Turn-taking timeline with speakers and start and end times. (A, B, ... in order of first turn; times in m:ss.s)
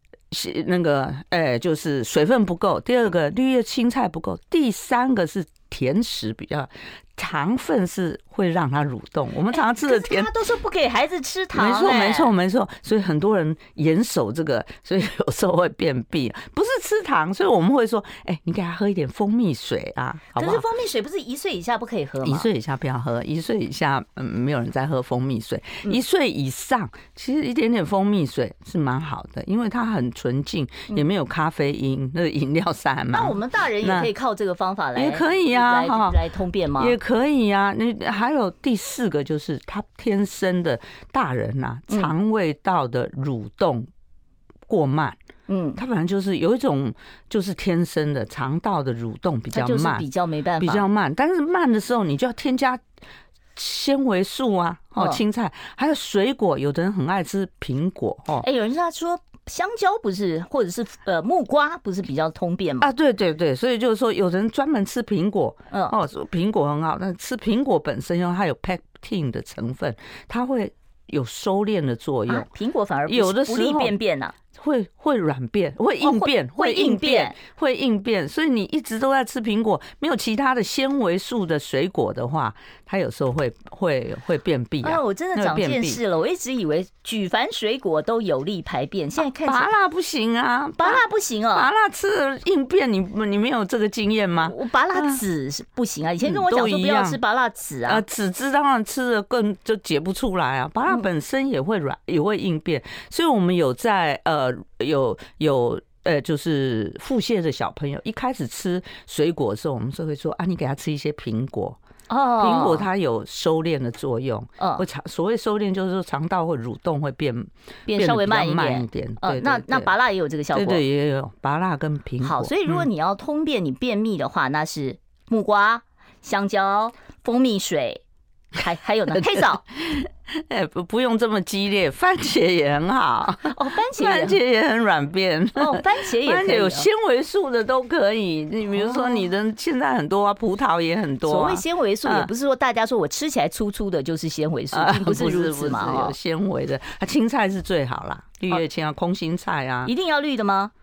0:00.3-0:10.3 A
0:09.5-0:12.3 B
0:11.5-0:20.6 A
0:20.4-0:22.5 B
0:22.2-0:34.1 A
0:33.1-0:37.0 B
0:34.9-0:36.2 A
0:36.8-0:43.9 A
0:44.7-0:45.2 A
0:45.5-0:45.8 B
0:45.8-0:50.0 A
0:49.5-0:50.8 B
0:50.6-0:52.8 A
0:53.5-0:58.4 A
0:58.4-1:02.9 B
1:02.8-1:12.5 A
1:12.3-1:14.3 B
1:13.1-1:13.9 A
1:14.5-1:26.0 A
1:16.0-1:17.4 B
1:24.8-1:29.7 B
1:29.4-1:35.2 A
1:30.8-1:31.7 B
1:34.4-1:38.0 B
1:36.2-1:37.2 A
1:37.8-1:51.8 A
1:52.1-1:52.8 B
1:52.4-1:59.9 A
1:57.9-2:00.8 B
2:00.5-2:02.9 A
2:02.2-2:08.0 B
2:08.6-2:09.6 B
2:09.1-2:22.3 A
2:13.4-2:14.4 B
2:15.6-2:16.9 B
2:18.7-2:19.2 B
2:21.2-2:26.1 B
2:24.7-2:29.9 A
2:29.8-2:30.7 B